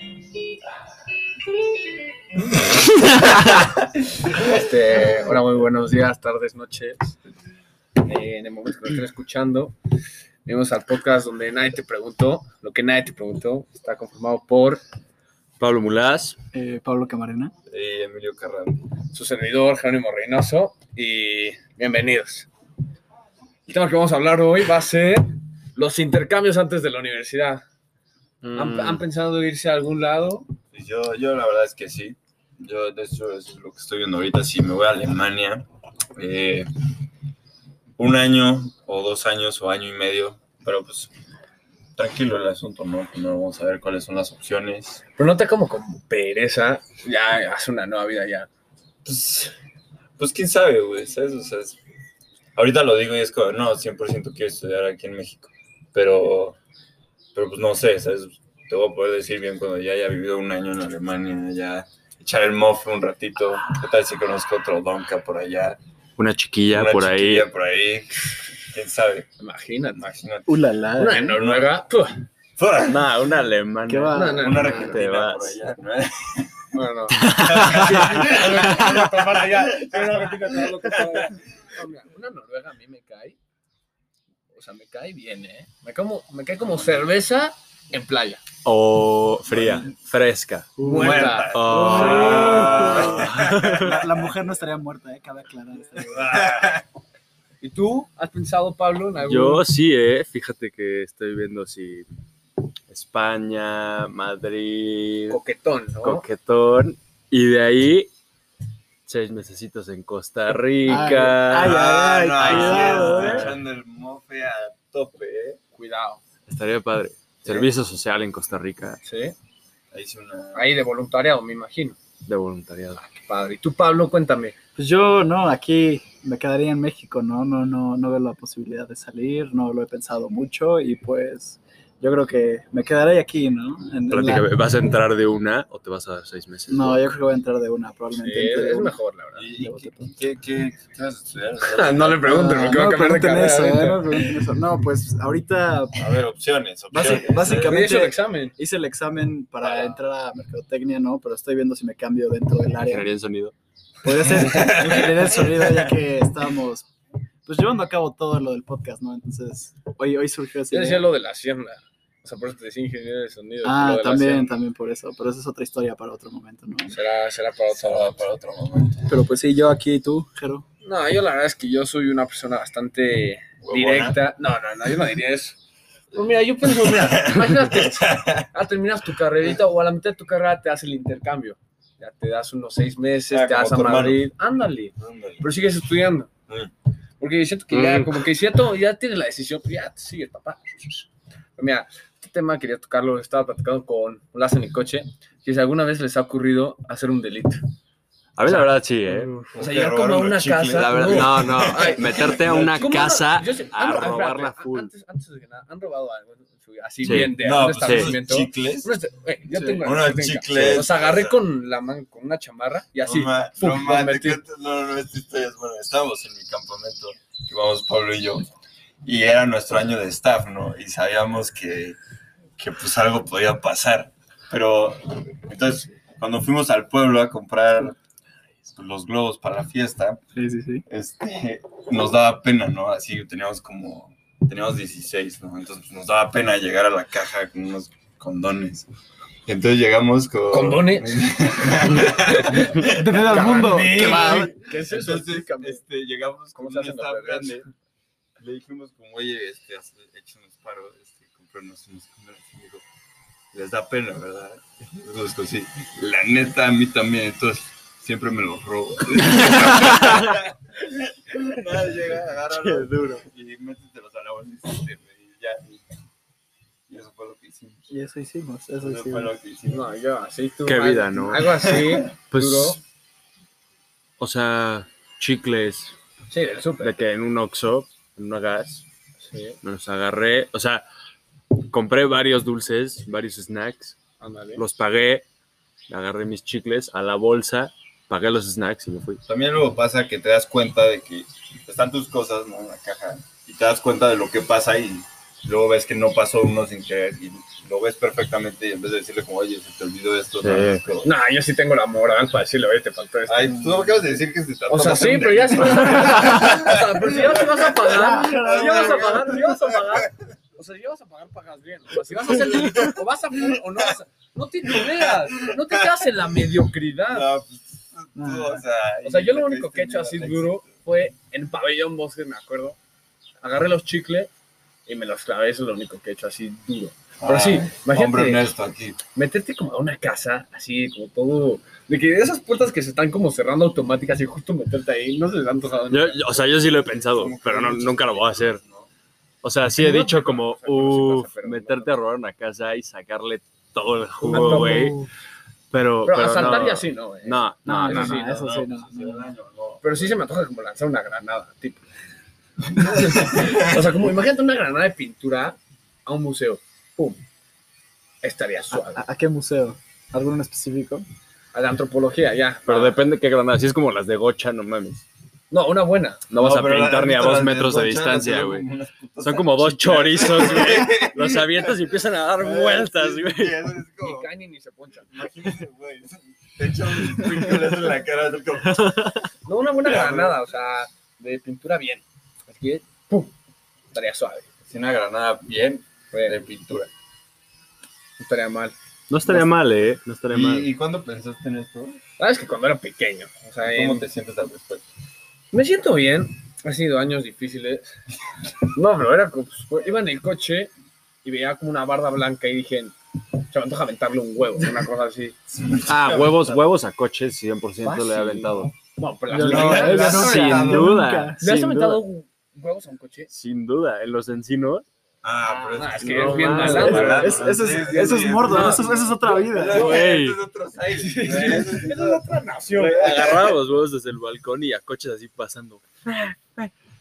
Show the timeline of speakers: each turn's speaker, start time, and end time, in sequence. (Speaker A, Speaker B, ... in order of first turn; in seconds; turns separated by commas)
Speaker A: 4.3-7.2, Speaker A: 8.0-9.7, Speaker A: 10.4-14.8, Speaker B: 15.6-16.4, Speaker C: 16.5-17.5, Speaker D: 17.7-18.9, Speaker A: 19.1-22.5, Speaker A: 23.7-27.6, Speaker B: 28.4-29.0, Speaker A: 28.5-30.5, Speaker D: 30.7-36.7, Speaker D: 38.0-41.1, Speaker D: 42.0-45.0, Speaker A: 45.2-48.5, Speaker D: 49.0-49.5, Speaker D: 50.2-51.8, Speaker D: 52.5-56.6, Speaker D: 57.3-65.8, Speaker B: 66.2-67.5, Speaker D: 66.7-69.3, Speaker A: 69.4-70.2, Speaker D: 70.0-70.6, Speaker C: 70.5-71.4, Speaker A: 71.0-72.2, Speaker D: 71.3-71.7, Speaker D: 72.6-73.1, Speaker B: 72.9-75.6, Speaker C: 73.9-74.7, Speaker A: 74.1-75.0, Speaker D: 74.3-76.8, Speaker A: 76.7-83.4, Speaker B: 77.2-78.7, Speaker D: 77.3-81.6, Speaker A: 84.5-88.4, Speaker B: 88.6-90.8, Speaker D: 89.5-89.9, Speaker C: 90.8-91.4, Speaker A: 90.8-93.1, Speaker D: 90.8-93.9, Speaker B: 91.5-94.0, Speaker C: 91.9-96.5, Speaker D: 96.0-96.8, Speaker A: 97.6-99.6, Speaker B: 99.2-102.0, Speaker B: 102.9-105.4, Speaker A: 105.3-106.2, Speaker B: 106.0-108.1, Speaker B: 109.0-111.8, Speaker C: 110.8-113.5, Speaker D: 111.5-115.6, Speaker B: 112.4-113.5, Speaker A: 115.7-116.2, Speaker B: 116.5-119.0, Speaker D: 117.5-117.7, Speaker A: 119.0-119.3, Speaker D: 119.9-120.7, Speaker A: 120.5-122.0, Speaker B: 122.2-123.0, Speaker A: 123.0-124.5, Speaker C: 124.8-134.5, Speaker B: 134.1-137.0, Speaker C: 136.7-138.9, Speaker A: 138.2-139.5, Speaker D: 139.3-142.3, Speaker C: 139.6-140.1, Speaker A: 141.6-144.3, Speaker C: 142.2-146.1, Speaker D: 145.9-147.9, Speaker C: 146.9-153.1, Speaker A: 147.4-148.5, Speaker B: 152.8-153.5, Speaker C: 154.0-156.8, Speaker D: 154.1-155.9, Speaker C: 157.4-161.1, Speaker A: 160.7-164.6, Speaker C: 163.6-167.0, Speaker A: 166.9-168.2, Speaker D: 167.7-169.1, Speaker C: 169.1-170.6, Speaker A: 170.8-175.6, Speaker D: 173.6-174.2, Speaker A: 176.1-186.3, Speaker D: 176.6-178.5, Speaker D: 183.3-184.3, Speaker D: 185.0-185.5, Speaker A: 187.2-197.6, Speaker B: 187.7-188.3, Speaker B: 198.4-199.3, Speaker A: 199.5-214.4, Speaker D: 199.5-202.8, Speaker B: 200.7-204.9, Speaker D: 207.0-208.9, Speaker B: 207.0-208.1, Speaker C: 209.5-209.8, Speaker D: 209.8-211.4, Speaker D: 213.0-218.5, Speaker D: 219.0-222.0, Speaker D: 222.6-228.0, Speaker D: 228.7-230.2, Speaker C: 230.3-230.8, Speaker D: 230.9-238.9, Speaker D: 239.4-247.7, Speaker A: 240.5-241.3, Speaker A: 241.8-245.8, Speaker C: 242.8-244.6, Speaker A: 246.6-247.6, Speaker D: 248.4-252.8, Speaker D: 253.5-265.8, Speaker B: 259.3-260.4, Speaker B: 262.5-263.2, Speaker D: 266.9-267.8, Speaker C: 267.9-269.3, Speaker D: 268.8-269.9, Speaker A: 269.7-272.8, Speaker B: 270.6-271.7, Speaker D: 271.4-272.1, Speaker B: 272.3-272.8, Speaker B: 274.2-275.9, Speaker A: 276.3-276.9, Speaker B: 276.8-278.8, Speaker A: 279.2-279.6, Speaker B: 279.6-280.8, Speaker B: 281.7-284.0, Speaker A: 284.2-284.6, Speaker B: 284.6-285.2, Speaker B: 285.9-289.2, Speaker D: 289.2-301.1, Speaker B: 300.4-300.8, Speaker A: 301.0-303.7, Speaker D: 303.3-310.1, Speaker A: 304.7-317.3, Speaker C: 307.8-309.3, Speaker D: 312.0-312.9, Speaker D: 314.8-316.1, Speaker D: 317.1-320.6, Speaker C: 318.1-318.6, Speaker A: 319.0-322.8, Speaker A: 323.4-324.3, Speaker A: 324.9-328.5, Speaker D: 327.2-329.0, Speaker A: 329.1-336.4, Speaker B: 335.9-338.6, Speaker D: 336.6-338.9, Speaker B: 339.4-345.0, Speaker A: 339.7-342.0, Speaker C: 344.2-345.1, Speaker A: 344.3-344.9, Speaker B: 345.7-348.2, Speaker A: 346.0-348.4, Speaker C: 347.6-349.3, Speaker D: 348.2-350.2, Speaker A: 349.8-351.8, Speaker D: 352.7-354.0, Speaker A: 352.7-357.2, Speaker A: 358.2-359.0, Speaker C: 358.7-361.0, Speaker A: 361.5-363.0, Speaker B: 362.6-365.0, Speaker A: 365.5-366.2, Speaker B: 366.3-368.7, Speaker D: 366.3-371.8, Speaker B: 369.2-373.7, Speaker D: 372.3-374.3, Speaker A: 374.0-375.1, Speaker D: 375.1-379.0, Speaker B: 377.1-377.8, Speaker B: 378.6-379.3, Speaker A: 379.4-383.3, Speaker D: 379.8-380.4, Speaker A: 383.9-384.5, Speaker D: 384.6-386.9, Speaker A: 386.1-386.4, Speaker A: 388.2-388.7, Speaker B: 389.1-390.7, Speaker D: 390.3-392.0, Speaker A: 392.2-394.1, Speaker D: 393.6-394.8, Speaker A: 395.5-397.9, Speaker A: 398.7-400.7, Speaker A: 401.2-405.4, Speaker D: 405.5-406.6, Speaker B: 405.9-408.7, Speaker A: 407.8-410.2, Speaker C: 409.3-411.4, Speaker D: 409.4-410.9, Speaker B: 409.5-412.0, Speaker A: 411.4-413.3, Speaker B: 413.3-414.8, Speaker D: 415.2-423.6, Speaker A: 415.6-417.4, Speaker B: 415.8-417.6, Speaker C: 416.6-419.9, Speaker B: 418.4-418.9, Speaker A: 419.7-420.0, Speaker B: 419.7-420.4, Speaker A: 420.9-423.4, Speaker B: 422.8-426.7